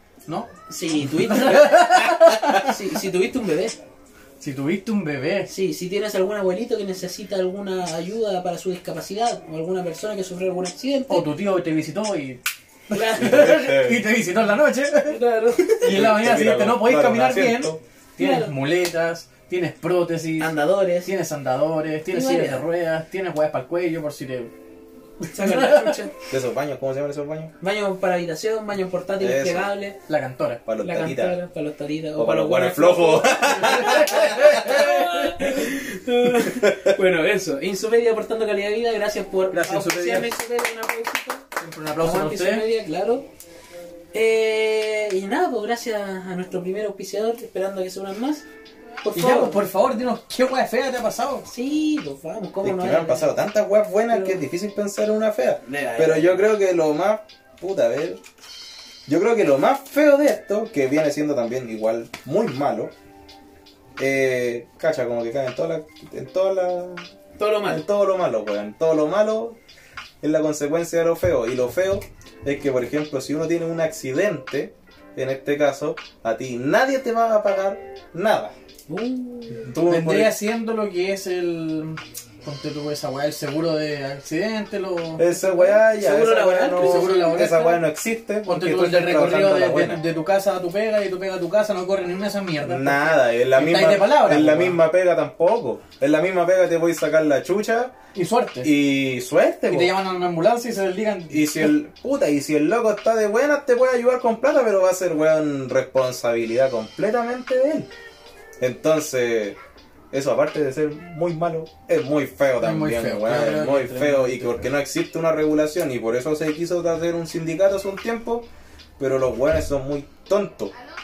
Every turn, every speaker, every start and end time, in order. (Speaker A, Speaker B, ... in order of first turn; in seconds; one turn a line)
Speaker A: 0.3-3.0
Speaker B: 0.7-3.8
Speaker A: 4.4-5.5
Speaker B: 5.5-11.3
Speaker A: 11.1-24.5
Speaker B: 12.9-13.4
Speaker C: 13.2-14.0
Speaker B: 15.1-16.0
Speaker C: 15.6-17.8
Speaker B: 18.2-18.5
Speaker B: 20.4-21.1
Speaker B: 22.1-22.6
Speaker A: 25.2-26.0
Speaker B: 25.3-26.1
Speaker C: 26.3-27.5
Speaker B: 27.6-30.0
Speaker C: 29.2-29.7
Speaker A: 30.1-30.6
Speaker C: 30.6-31.3
Speaker B: 30.8-43.3
Speaker C: 32.2-34.6
Speaker A: 33.6-35.5
Speaker A: 39.5-40.3
Speaker A: 41.5-42.7
Speaker B: 44.1-48.4
Speaker B: 49.0-49.6
Speaker A: 49.1-51.5
Speaker B: 51.5-53.3
Speaker C: 52.6-58.2
Speaker B: 54.1-54.4
Speaker B: 55.6-56.5
Speaker C: 59.1-62.9
Speaker C: 64.0-67.1
Speaker B: 67.4-67.8
Speaker C: 67.7-69.6
Speaker C: 70.2-78.5
Speaker B: 78.9-79.7
Speaker C: 79.6-80.3
Speaker A: 79.9-85.8
Speaker C: 85.2-90.0
Speaker B: 85.9-87.8
Speaker A: 86.8-87.8
Speaker A: 88.5-94.8
Speaker C: 92.6-98.0
Speaker A: 98.1-98.7
Speaker C: 98.6-99.9
Speaker A: 99.7-101.7
Speaker C: 101.3-107.9
Speaker C: 108.6-109.5
Speaker C: 110.1-118.5
Speaker A: 112.6-114.7
Speaker C: 119.0-120.7